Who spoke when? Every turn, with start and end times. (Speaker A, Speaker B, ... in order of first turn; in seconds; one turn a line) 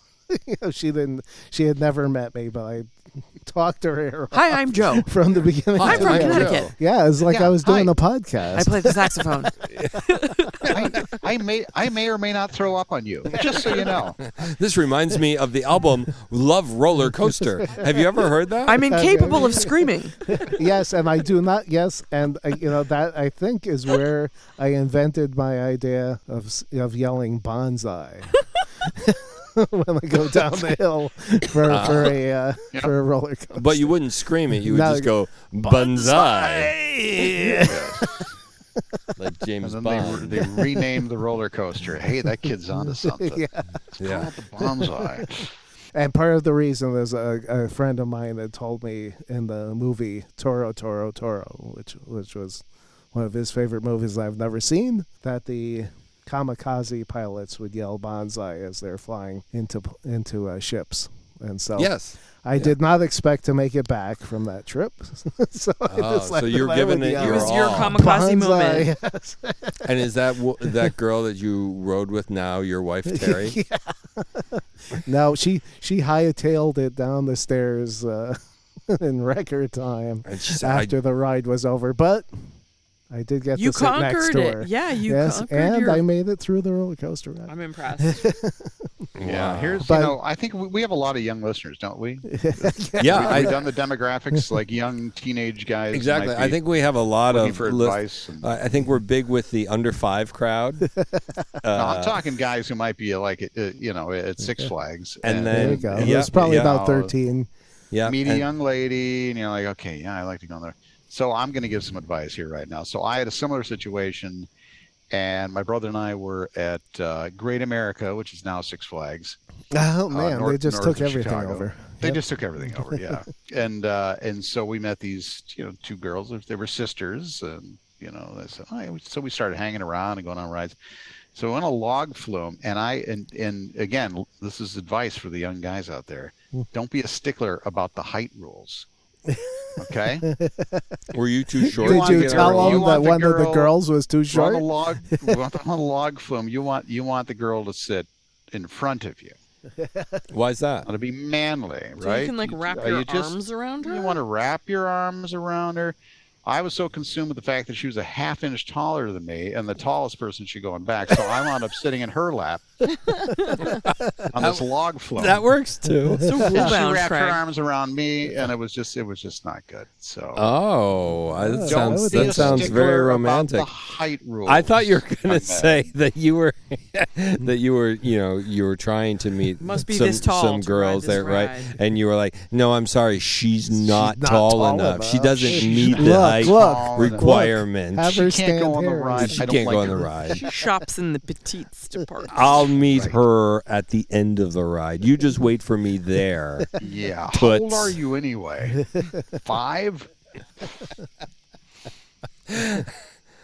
Speaker A: 0.3-9.2
Speaker B: 4.3-5.1
Speaker C: 5.8-6.7
Speaker B: 5.8-6.7
Speaker D: 7.3-7.9
Speaker B: 8.5-10.7
Speaker D: 10.6-14.2
Speaker A: 13.3-14.0
Speaker C: 14.2-18.9
Speaker B: 18.6-20.4
Speaker A: 18.9-33.9
Speaker C: 31.6-32.2
Speaker C: 33.5-37.2
Speaker A: 34.6-38.3
Speaker D: 37.6-38.3
Speaker A: 38.8-39.0
Speaker C: 39.2-40.4
Speaker D: 39.6-43.4
Speaker A: 40.4-41.0
Speaker A: 42.9-43.8
Speaker D: 43.9-45.5
Speaker C: 44.0-44.3
Speaker A: 44.6-45.3
Speaker A: 45.9-61.9
Speaker C: 61.8-62.8
Speaker A: 62.4-69.9
Speaker C: 65.9-68.0
Speaker B: 67.2-68.9
Speaker C: 69.8-73.6
Speaker A: 73.1-82.3
Speaker C: 80.2-80.9
Speaker A: 83.1-89.0
Speaker B: 83.5-86.0
Speaker B: 87.5-88.2
Speaker C: 89.2-89.8
Speaker D: 89.2-96.6
Speaker A: 89.8-90.2
Speaker A: 92.3-93.6
Speaker C: 93.0-93.6
Speaker C: 95.9-100.9
Speaker D: 97.3-98.5
Speaker A: 100.9-101.4
Speaker C: 101.6-102.2
Speaker D: 101.7-107.1
Speaker C: 105.2-106.9
Speaker A: 105.5-107.5
Speaker C: 107.9-108.5
Speaker D: 108.0-114.5
Speaker D: 115.1-119.4
Speaker A: 119.7-123.2
Speaker D: 120.1-130.8
Speaker D: 131.3-138.9
Speaker A: 139.3-141.0
Speaker D: 139.8-140.3
Speaker C: 141.1-142.9
Speaker A: 141.6-145.4
Speaker D: 141.7-143.7
Speaker D: 144.3-149.3
Speaker A: 149.8-150.2
Speaker C: 150.3-150.9
Speaker D: 150.8-162.6
Speaker B: 152.0-154.2
Speaker B: 162.9-163.7
Speaker C: 163.6-164.6
Speaker D: 164.3-165.4
Speaker C: 165.2-166.6
Speaker B: 166.2-167.4
Speaker D: 166.4-170.4
Speaker C: 170.3-173.7
Speaker A: 171.4-172.8
Speaker D: 171.7-175.8
Speaker C: 174.4-188.2
Speaker B: 179.6-181.7
Speaker A: 183.8-189.5
Speaker D: 185.5-187.3
Speaker D: 188.1-190.4
Speaker C: 189.1-190.4
Speaker B: 190.3-192.7
Speaker C: 192.3-196.7
Speaker D: 192.8-193.2
Speaker D: 196.8-200.1
Speaker C: 197.3-198.0
Speaker A: 198.8-199.2
Speaker C: 202.5-202.9